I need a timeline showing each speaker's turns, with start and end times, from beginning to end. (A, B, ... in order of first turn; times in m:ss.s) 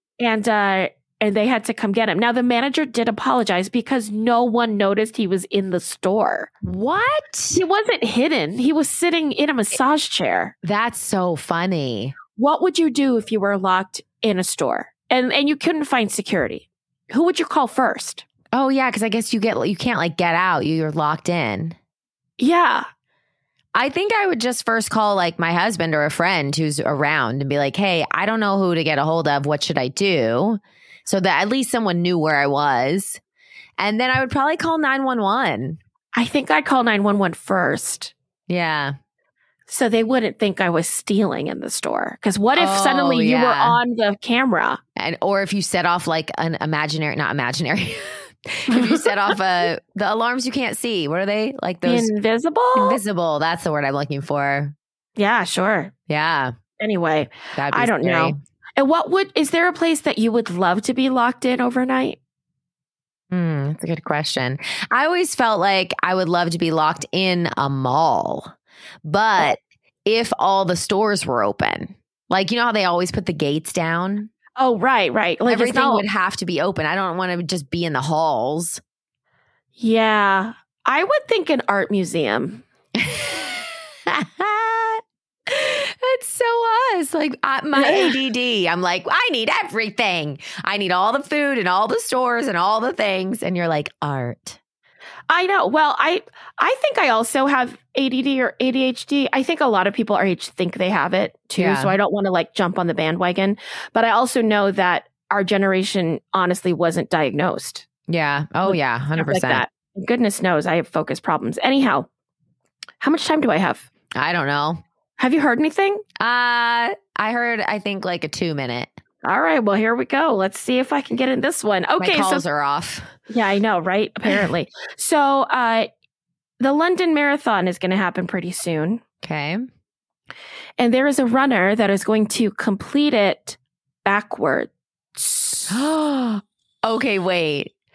0:00.2-0:06.5 A
0:06.6-0:07.6 B
0:07.5-0:10.5 A
0:10.6-0:12.2 B
0:12.4-0:18.2 A
0:18.5-0:21.8 B
0:22.4-0:22.8 A
0:23.7-0:33.2 B
0:33.8-0:35.8 B
0:36.2-0:38.1 A
0:38.5-0:39.0 B
0:39.7-0:44.8 A
0:42.5-0:43.8 B
0:45.0-0:52.1 B
0:48.7-0:49.3 A
0:51.8-0:53.0 A
0:52.8-0:54.8 B
0:55.2-0:55.9 A
0:56.1-0:56.5 B
0:56.8-1:02.2 A
0:57.6-0:58.4 B
1:03.3-1:08.5 B
1:09.0-1:14.3 B
1:14.6-1:16.1 A
1:15.5-1:18.8 B
1:19.8-1:22.6 A
1:23.0-1:34.6 B
1:27.8-1:28.2 A
1:35.3-1:47.9 A
1:41.6-1:42.0 B
1:48.1-1:49.6 B
1:48.6-1:52.1 A
1:53.0-1:53.9 A
1:54.2-1:54.8 B
1:55.2-1:56.0 A
1:56.2-1:58.9 B
1:59.2-2:02.4 A
2:02.0-2:03.1 B
2:03.3-2:05.9 A
2:06.6-2:09.0 A
2:09.2-2:09.6 B
2:10.8-2:15.8 A
2:15.7-2:17.7 B